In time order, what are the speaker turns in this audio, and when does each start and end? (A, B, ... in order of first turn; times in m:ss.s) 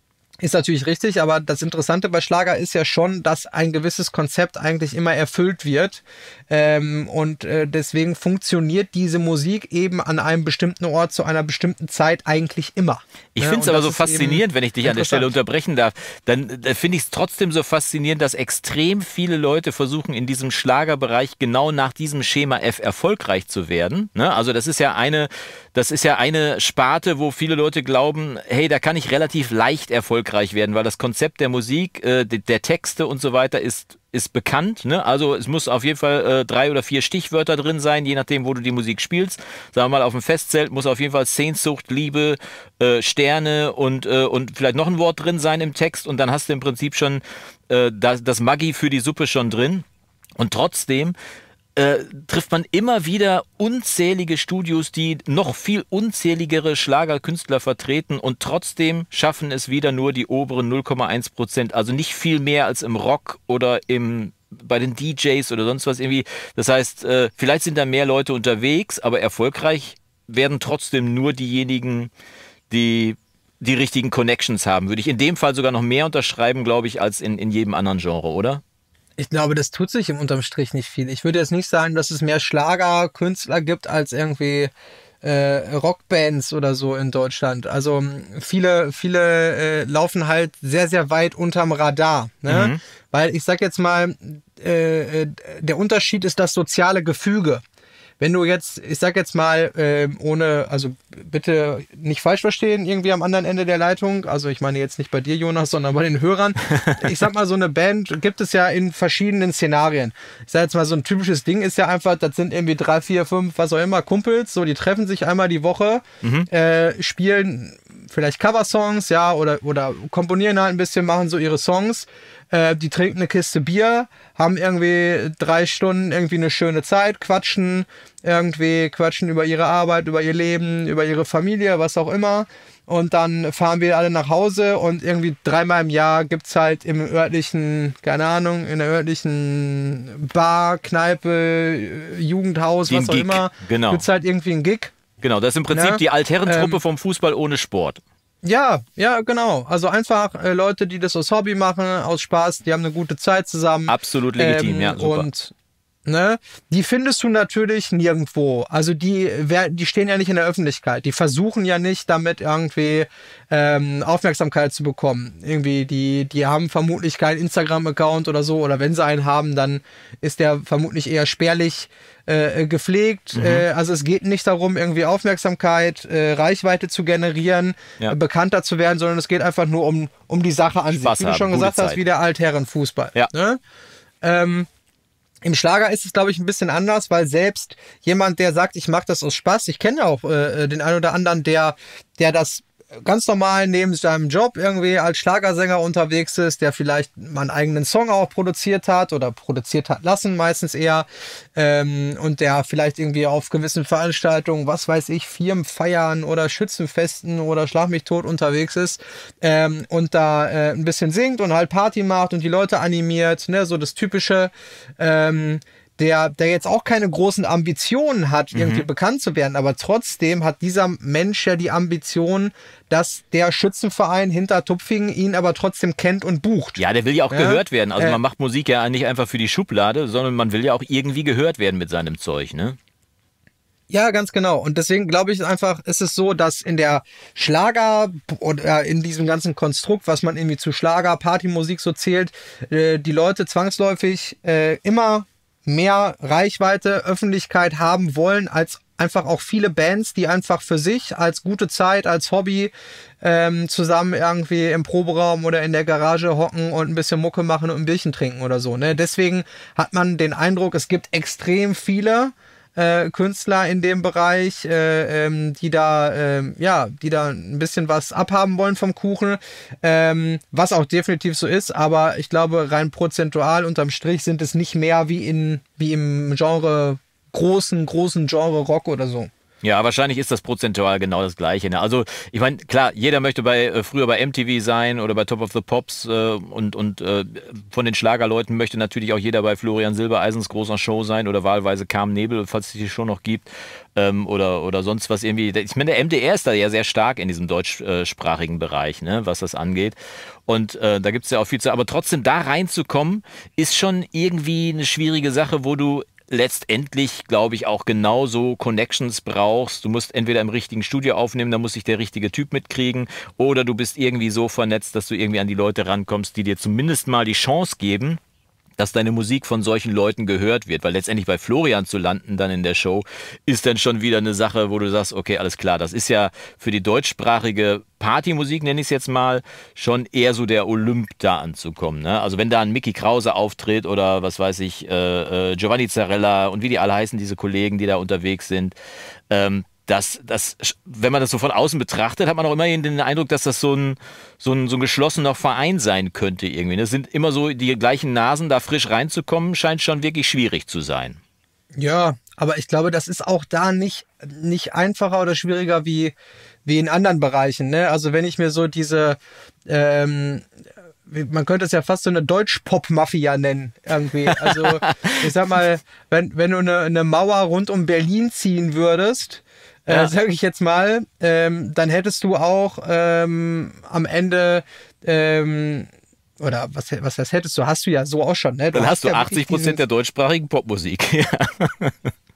0:00.4-0:15.3 A
0:13.4-0:49.8 B
0:50.4-0:51.2 B
0:51.8-1:12.1 B
1:12.7-1:18.6 B
1:19.2-1:24.7 A
1:25.2-1:37.6 A
1:32.5-1:32.8 B
1:38.2-2:24.9 A
1:46.7-1:47.1 B
1:56.2-1:56.5 B
2:22.9-2:24.0 B
2:25.2-2:28.0 B
2:25.7-2:26.8 A
2:28.4-2:35.5 A
2:33.9-2:35.3 B
2:36.1-3:03.6 A
2:53.4-2:53.6 B
3:01.0-3:02.0 B
3:04.2-3:04.7 A
3:05.4-3:48.2 A
3:38.5-3:38.9 B
3:46.8-3:52.8 B
3:53.9-4:39.3 A
4:39.6-5:18.2 B
5:18.8-5:38.8 B
5:39.3-5:51.2 B
5:51.8-5:56.2 A
5:56.7-6:00.4 A
6:01.1-6:15.9 A
6:04.3-6:05.2 B
6:16.4-6:19.8 A
6:18.7-6:22.1 B